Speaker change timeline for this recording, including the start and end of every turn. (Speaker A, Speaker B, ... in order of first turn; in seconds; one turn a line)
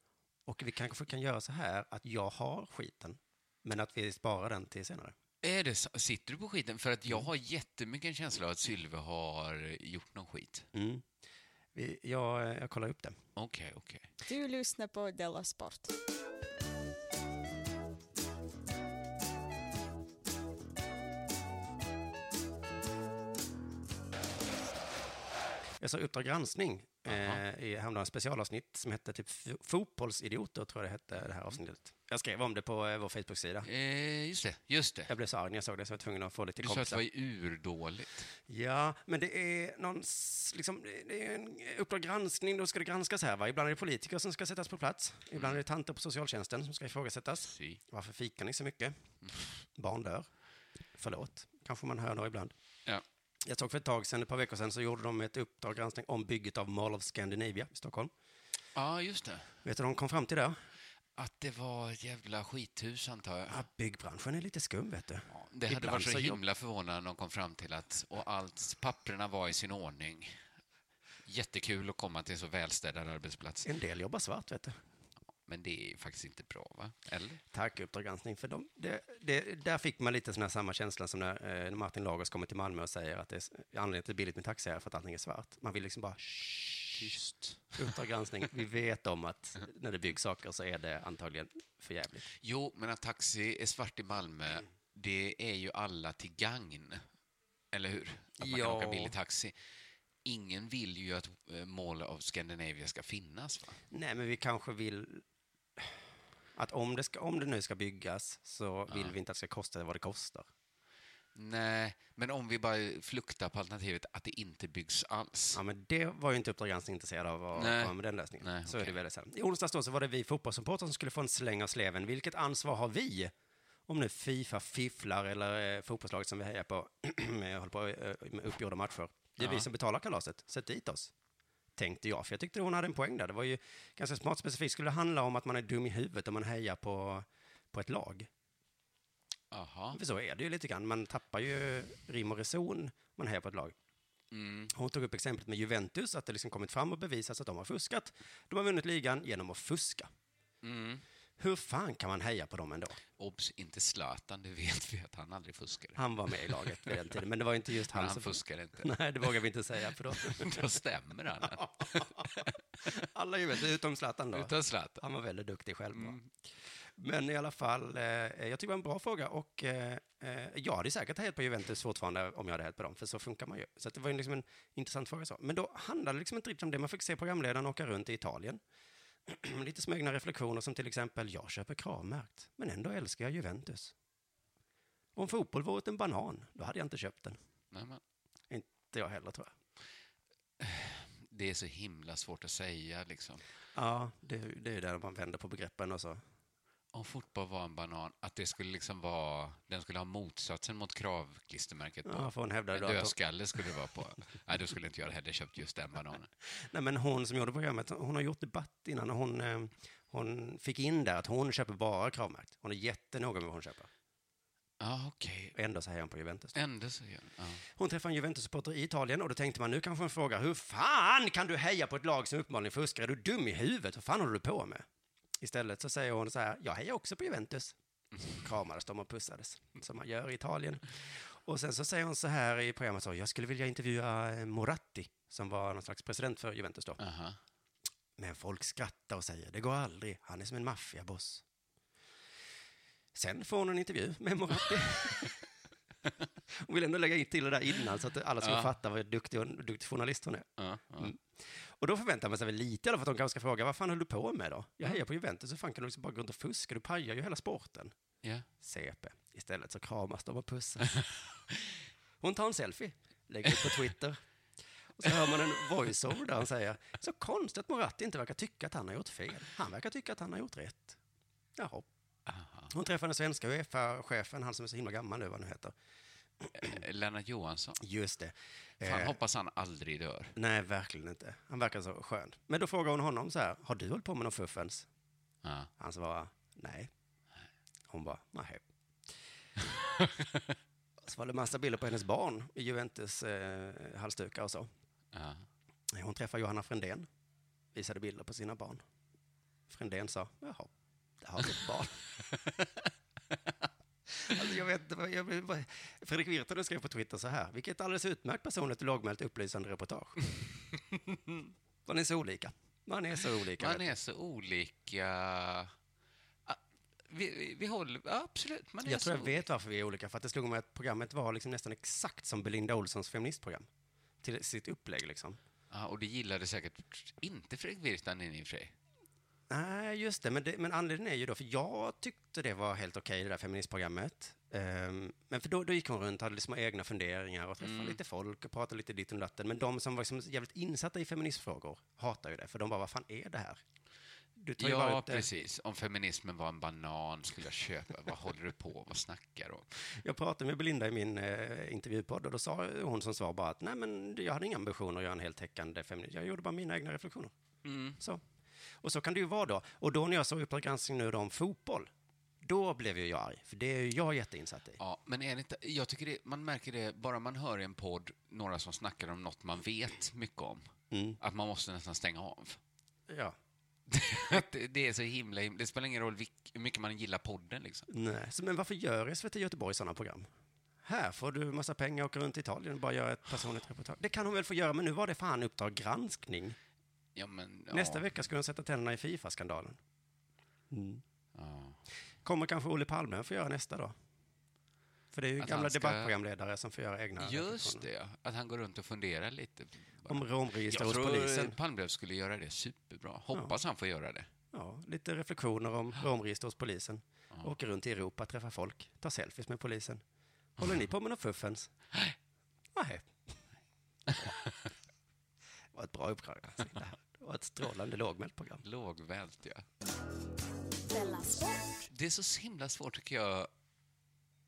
Speaker A: 0.5-5.1
Speaker B: 5.4-10.7
Speaker A: 10.7-11.0
Speaker A: 11.7-13.1
Speaker B: 13.3-14.1
Speaker C: 14.3-15.9
Speaker A: 25.8-33.7
Speaker B: 27.1-27.4
Speaker B: 33.6-35.1
Speaker A: 35.1-37.0
Speaker B: 36.6-38.3
Speaker A: 38.5-48.9
Speaker B: 47.5-47.8
Speaker A: 49.7-50.3
Speaker A: 51.0-52.5
Speaker A: 53.4-58.1
Speaker B: 58.7-59.5
Speaker A: 59.6-60.5
Speaker B: 61.1-63.6
Speaker A: 63.5-66.4
Speaker B: 65.3-70.4
Speaker B: 71.2-73.7
Speaker A: 73.6-74.8
Speaker B: 75.5-77.4
Speaker A: 77.5-87.1
Speaker B: 86.9-87.8
Speaker A: 87.8-92.3
Speaker B: 92.4-97.0
Speaker B: 97.7-99.5
Speaker A: 98.4-99.1
Speaker B: 100.2-103.8
Speaker A: 103.9-105.2
Speaker A: 106.5-110.5
Speaker B: 108.9-109.1
Speaker B: 111.3-115.6
Speaker A: 115.5-123.3
Speaker B: 117.5-119.0
Speaker A: 123.9-131.1
Speaker A: 131.8-138.3
Speaker B: 139.5-140.0
Speaker A: 139.9-143.7
Speaker B: 144.3-144.7
Speaker A: 144.7-150.1
Speaker B: 150.6-151.0
Speaker A: 151.4-153.0
Speaker B: 153.2-156.9
Speaker A: 155.9-160.7
Speaker B: 157.9-158.9
Speaker B: 160.1-162.5
Speaker A: 161.4-166.2
Speaker B: 164.3-165.0
Speaker B: 165.9-166.3
Speaker A: 167.0-178.6
Speaker A: 179.2-183.9
Speaker A: 185.2-187.4
Speaker B: 187.7-188.0
Speaker A: 188.5-189.5
Speaker B: 190.6-193.4
Speaker A: 193.7-196.2
Speaker B: 196.9-206.3
Speaker A: 202.0-203.1
Speaker A: 206.4-213.9
Speaker B: 214.8-215.5
Speaker A: 215.5-216.6
Speaker B: 216.5-217.6
Speaker A: 217.7-224.8
Speaker A: 225.4-227.7
Speaker A: 228.3-237.0
Speaker B: 237.0-237.4
Speaker A: 238.2-241.4
Speaker A: 243.1-245.4
Speaker A: 246.5-257.9
Speaker B: 248.4-248.7
Speaker B: 250.6-251.1
Speaker B: 258.2-258.5
Speaker A: 258.6-261.0
Speaker A: 262.2-264.2
Speaker A: 265.0-271.0
Speaker A: 271.6-271.9
Speaker B: 272.3-272.7
Speaker A: 272.7-275.7
Speaker B: 276.5-277.8
Speaker A: 277.8-279.2
Speaker B: 278.8-280.3
Speaker A: 280.4-284.9
Speaker B: 285.4-285.7
Speaker A: 285.8-286.9
Speaker A: 287.9-288.7
Speaker B: 289.7-290.5
Speaker A: 291.0-294.7
Speaker B: 295.1-295.5
Speaker A: 295.9-297.1
Speaker A: 297.7-298.8
Speaker A: 299.7-302.0
Speaker A: 304.1-310.2
Speaker A: 311.9-313.9
Speaker B: 313.6-315.7
Speaker B: 316.4-319.4
Speaker A: 318.8-323.7
Speaker A: 324.2-325.4
Speaker B: 325.7-328.7
Speaker A: 329.5-343.6
Speaker B: 337.6-338.0
Speaker A: 344.4-345.3
Speaker B: 344.6-349.8
Speaker A: 349.9-357.3
Speaker B: 357.6-358.0
Speaker A: 358.8-361.9
Speaker A: 362.4-364.8
Speaker B: 364.8-372.6
Speaker A: 370.9-371.2
Speaker A: 373.1-373.4
Speaker B: 373.9-377.9
Speaker A: 377.9-380.2
Speaker A: 380.8-386.6
Speaker B: 387.1-388.1
Speaker A: 387.7-389.8
Speaker A: 390.7-391.0
Speaker B: 391.3-391.8
Speaker A: 392.2-393.9
Speaker A: 395.1-397.8
Speaker B: 395.4-396.1
Speaker B: 397.2-404.3
Speaker A: 400.0-401.6
Speaker A: 404.5-410.0
Speaker A: 410.6-411.7
Speaker A: 412.7-413.1
Speaker B: 414.2-414.5
Speaker A: 415.7-418.6
Speaker B: 418.6-419.6
Speaker C: 420.8-421.9
Speaker B: 421.9-423.5